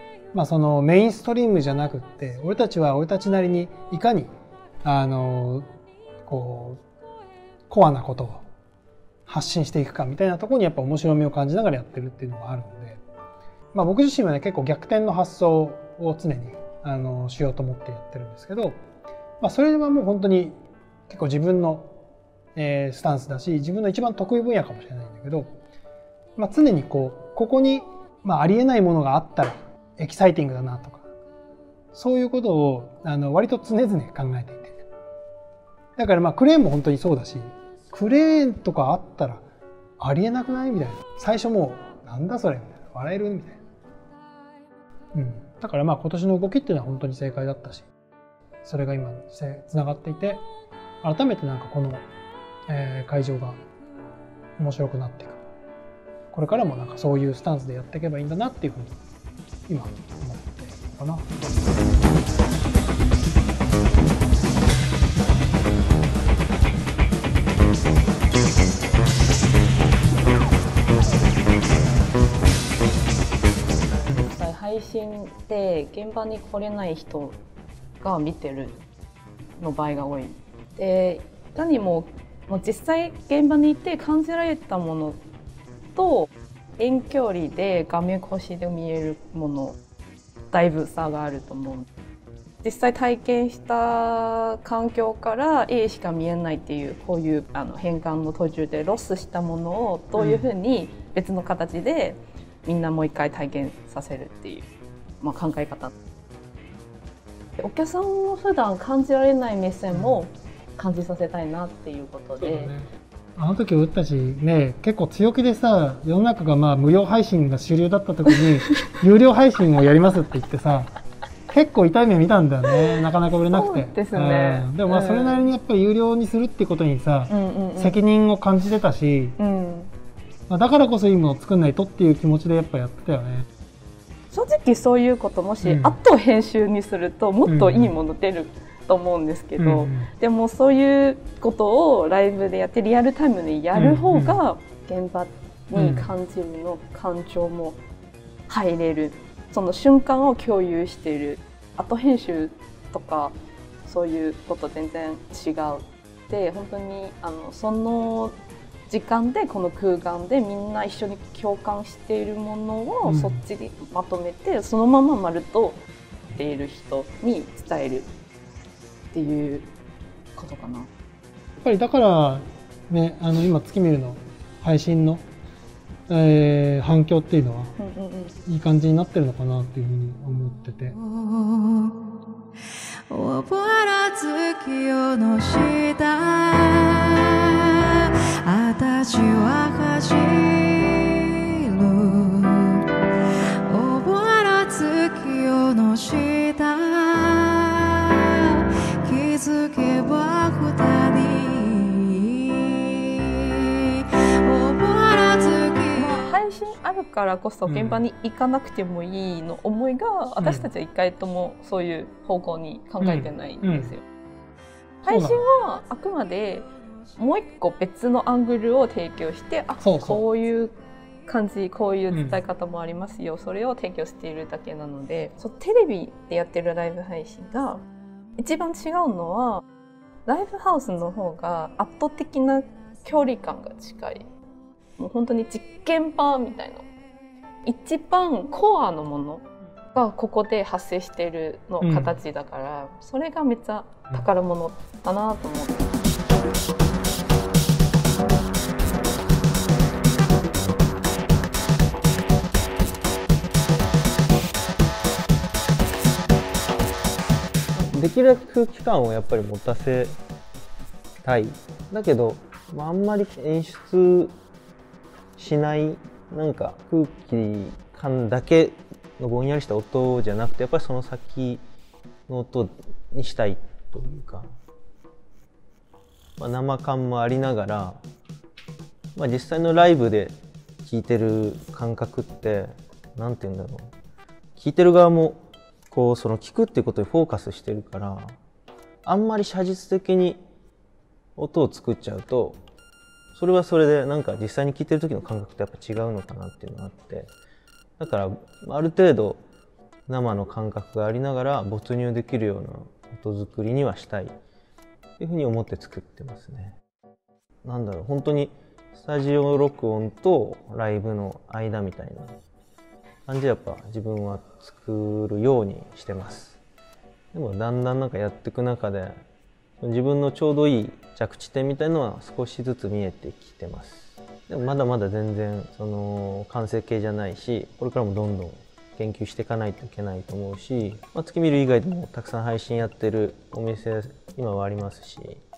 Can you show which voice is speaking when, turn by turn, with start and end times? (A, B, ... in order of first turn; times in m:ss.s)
0:00.3-0:04.3 A
0:04.8-0:05.7 A
0:06.2-0:06.8 A
0:07.7-0:08.4 A
0:09.3-0:13.0 A
0:13.7-0:18.8 A
0:19.4-0:21.9 A
0:22.6-0:25.5 A
0:26.4-0:31.0 A
0:31.9-0:34.8 A
0:36.0-0:39.4 A
0:40.0-0:43.6 A
0:45.1-0:47.9 A
0:48.6-0:50.4 A
0:51.0-0:52.0 A
0:52.7-0:53.6 A
0:54.6-0:55.4 A
0:56.3-0:59.0 A
0:59.7-1:01.3 A
1:14.2-1:17.4 B
1:18.0-1:18.8 B
1:19.6-1:25.2 B
1:25.9-1:29.8 B
1:30.5-1:31.9 B
1:32.6-1:44.7 B
1:40.2-1:40.5 A
1:45.2-1:45.9 B
1:47.6-1:52.7 B
1:49.9-1:50.2 A
1:52.4-2:00.9 A
1:58.3-1:58.7 B
2:01.5-2:09.4 A
2:03.5-2:05.5 B
2:07.3-2:08.0 B
2:09.4-2:09.9 B
2:10.5-2:13.5 A
2:14.3-2:27.8 B
2:15.6-2:16.0 A
2:17.4-2:17.9 A
2:19.6-2:20.1 A
2:23.7-2:24.4 A
2:25.7-2:26.1 A
2:28.5-2:38.4 B
2:38.9-2:45.8 B
2:43.0-2:43.4 A
2:46.3-2:48.1 B
2:49.1-2:49.7 B
2:50.3-2:50.9 B
2:51.6-2:55.2 A
2:56.1-2:57.7 A
2:57.8-2:58.4 B
2:58.4-3:01.0 A
3:01.0-3:02.0 C
3:03.1-3:07.2 C
3:08.4-3:11.2 C
3:11.7-3:12.8 C
3:13.7-3:17.9 C
3:19.0-3:22.9 C
3:24.4-3:26.2 C
3:25.9-3:34.0 B
3:27.6-3:28.0 A
3:30.4-3:30.6 A
3:33.0-3:33.9 A
3:35.0-3:47.8 B
3:35.1-3:35.4 A
3:39.8-3:40.2 A
3:42.1-3:42.4 A
3:48.4-3:49.6 B
3:50.2-3:54.2 B
3:55.0-3:56.9 B
3:57.6-4:05.9 B
4:01.8-4:02.1 A
4:17.8-4:20.2 D
4:21.2-4:24.3 D
4:25.4-4:31.6 D
4:32.3-4:34.5 D
4:36.4-4:38.0 D
4:39.2-4:43.9 D
4:44.6-4:45.4 D
4:45.9-4:48.4 D
4:49.0-4:50.4 D
4:51.4-4:52.6 D
4:53.3-4:57.3 D
4:58.0-4:59.4 D
5:00.1-5:04.3 D
5:05.2-5:06.8 D
5:07.6-5:12.3 D
5:13.3-5:16.6 D
5:17.3-5:19.2 D
5:19.8-5:35.4 D